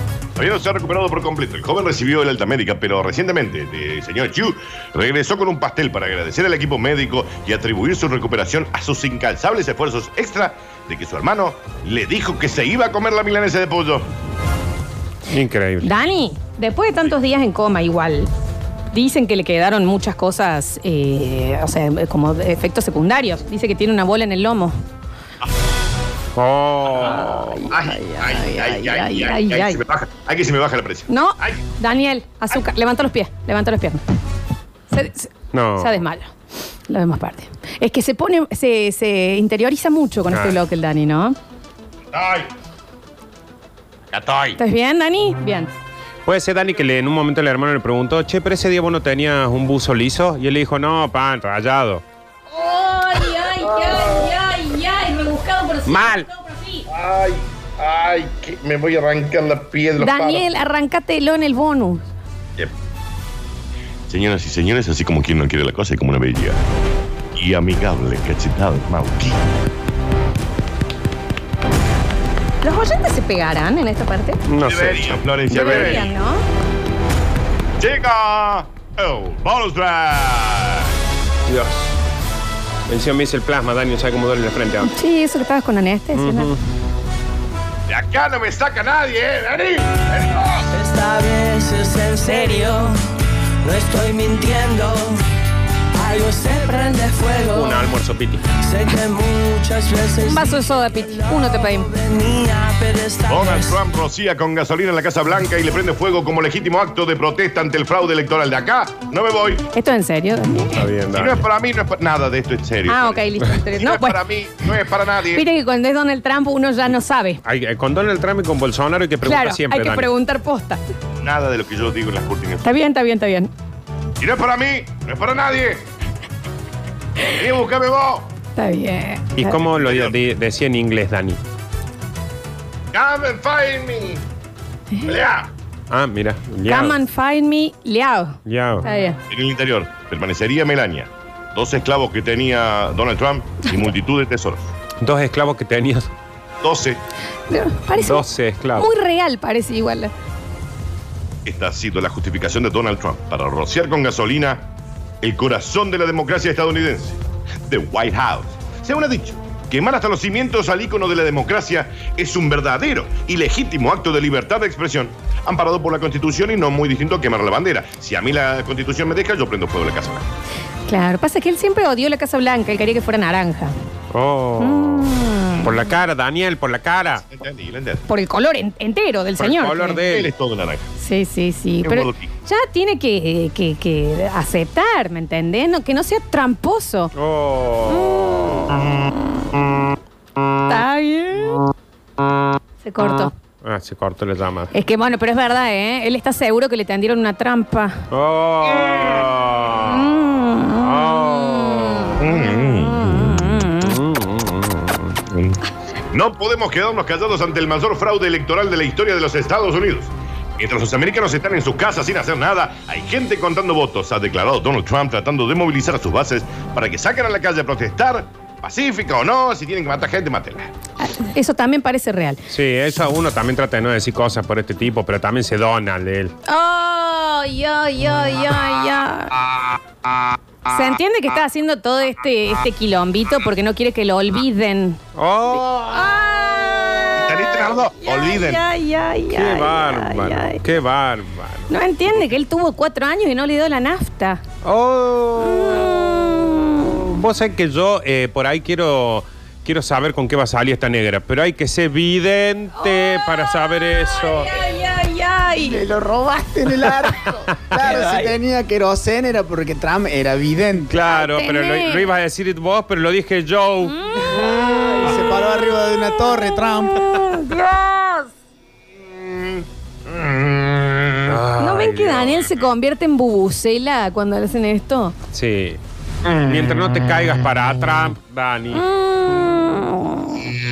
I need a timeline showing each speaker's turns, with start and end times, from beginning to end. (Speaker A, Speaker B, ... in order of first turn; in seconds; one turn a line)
Speaker A: 0.3-14.1
Speaker B: 15.3-15.9
Speaker C: 15.8-18.3
Speaker C: 18.9-24.8
Speaker B: 26.4-27.6
Speaker C: 27.0-29.8
Speaker A: 27.7-31.7
Speaker C: 31.1-34.0
Speaker C: 34.9-36.3
Speaker B: 35.5-35.9
Speaker C: 36.9-41.4
Speaker B: 40.3-40.6
Speaker A: 42.1-42.5
Speaker A: 44.1-44.6
Speaker C: 44.6-45.7
Speaker B: 46.2-52.0
Speaker C: 52.5-56.9
Speaker A: 53.6-54.3
Speaker B: 55.9-56.2
Speaker A: 56.9-60.5
Speaker C: 60.0-62.1
Speaker A: 64.1-66.6
Speaker A: 67.3-69.4
Speaker C: 72.6-74.4
Speaker B: 74.5-76.1
Speaker A: 74.6-76.1
Speaker C: 75.5-76.4
Speaker A: 77.8-80.9
Speaker B: 81.5-82.0
Speaker B: 82.9-84.9
Speaker C: 84.8-86.5
Speaker B: 86.1-86.6
Speaker A: 87.9-90.6
Speaker D: 90.7-93.0
Speaker C: 92.2-92.9
Speaker D: 93.6-95.2
Speaker D: 95.9-97.9
Speaker B: 97.3-98.4
Speaker D: 98.6-103.8
Speaker C: 100.2-102.0
Speaker A: 103.2-109.7
Speaker C: 109.7-110.8
Speaker B: 110.8-111.4
Speaker A: 111.1-115.4
Speaker C: 112.9-114.2
Speaker C: 115.3-117.4
Speaker B: 117.4-120.0
Speaker C: 119.2-120.8
Speaker A: 121.2-122.7
Speaker C: 122.6-123.5
Speaker A: 124.2-125.8
Speaker A: 127.3-128.3
Speaker C: 128.6-129.6
Speaker B: 129.3-131.4
Speaker A: 129.5-130.2
Speaker A: 132.9-134.2
Speaker C: 134.9-135.2
Speaker A: 135.0-135.5
Speaker B: 135.9-137.0
Speaker C: 136.7-139.2
Speaker B: 138.4-138.8
Speaker A: 139.3-144.7
Speaker B: 145.0-146.1
Speaker A: 146.6-147.0
Speaker C: 147.5-150.1
Speaker B: 148.0-148.9
Speaker A: 151.4-154.7
Speaker A: 155.2-170.2
Speaker C: 170.9-173.7
Speaker B: 174.1-177.2
Speaker C: 174.6-175.7
Speaker A: 177.1-178.0
Speaker C: 178.1-180.0
Speaker B: 179.4-180.3
Speaker A: 180.1-180.8
Speaker C: 181.0-187.1
Speaker A: 181.8-182.3
Speaker B: 187.1-188.5
Speaker C: 187.9-189.1
Speaker C: 190.6-191.6
Speaker C: 192.8-193.3
Speaker B: 193.6-194.7
Speaker C: 194.7-198.0
Speaker B: 198.1-202.2
Speaker C: 199.8-203.9
Speaker A: 202.2-203.7
Speaker B: 203.8-205.2
Speaker A: 205.3-220.7
Speaker C: 221.0-222.4
Speaker B: 222.5-226.3
Speaker C: 226.4-229.3
Speaker C: 230.7-240.6
Speaker B: 235.2-236.1
Speaker A: 237.2-238.6
Speaker B: 239.3-241.7
Speaker C: 241.7-244.4
Speaker B: 244.6-246.0
Speaker C: 245.4-246.8
Speaker B: 247.0-254.5
Speaker C: 252.8-255.8
Speaker E: 255.6-260.9
Speaker B: 256.8-258.3
Speaker B: 260.9-264.0
Speaker C: 261.0-262.1
Speaker C: 263.9-265.6
Speaker E: 264.3-267.0
Speaker C: 266.3-268.3
Speaker A: 269.0-271.4
Speaker B: 271.3-272.4
Speaker C: 271.6-275.1
Speaker B: 275.3-275.8
Speaker A: 276.2-276.5
Speaker B: 276.4-278.8
Speaker C: 278.7-280.5